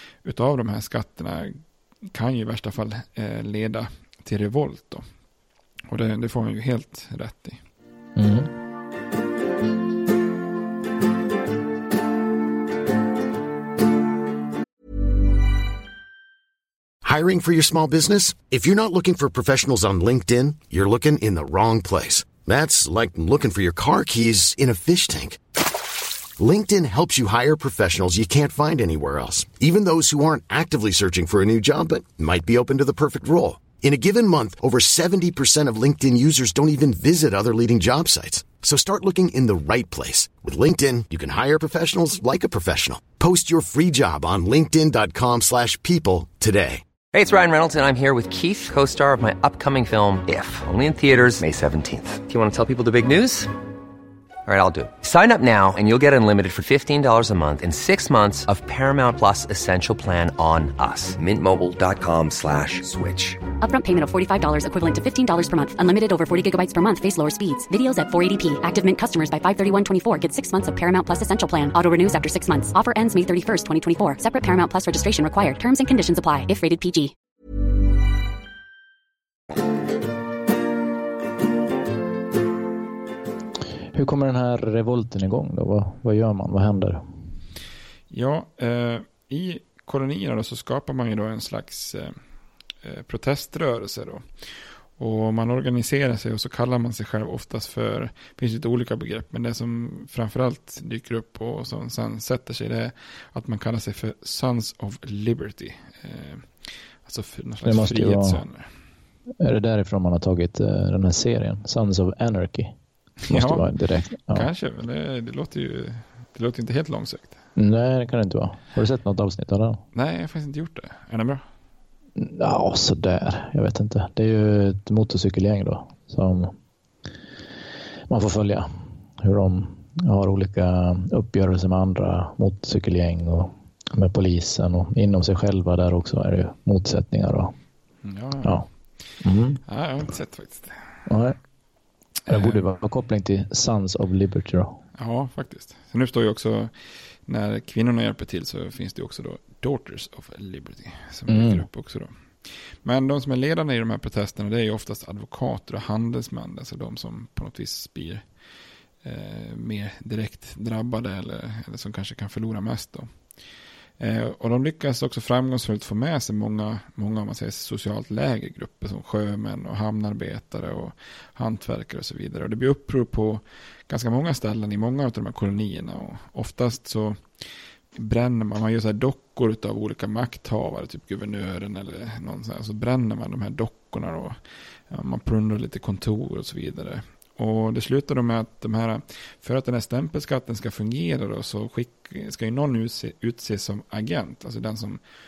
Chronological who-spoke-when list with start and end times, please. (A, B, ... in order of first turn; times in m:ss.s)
0:00.2-0:05.0 A
0:05.9-0:07.6 A
0:08.2-0:08.5 B
0:17.0-0:25.4 C
0:26.4-0:46.8 C
0:47.1-0:53.5 D
0:54.4-1:03.4 D
1:03.6-1:17.1 E
1:23.9-1:27.0 B
1:28.1-1:32.2 A
1:32.8-1:34.2 A
1:35.0-1:46.5 A
1:47.0-1:48.7 A
1:47.6-1:48.4 B
1:49.4-1:52.8 B
1:53.2-1:53.7 A
1:53.3-1:54.5 B
1:54.3-1:57.4 A
1:57.6-1:59.8 B
1:59.9-2:01.4 A
2:02.2-2:06.5 B
2:08.1-2:17.5 B
2:18.0-2:18.6 A
2:19.2-2:19.6 B
2:19.7-2:20.8 A
2:21.1-2:21.4 B
2:22.2-2:22.6 A
2:22.3-2:24.8 B
2:24.9-2:26.7 A
2:27.2-2:38.2 A
2:31.3-2:31.6 B
2:39.0-2:43.1 A
2:44.0-2:57.2 A
2:58.0-3:04.4 A
3:04.9-3:15.0 A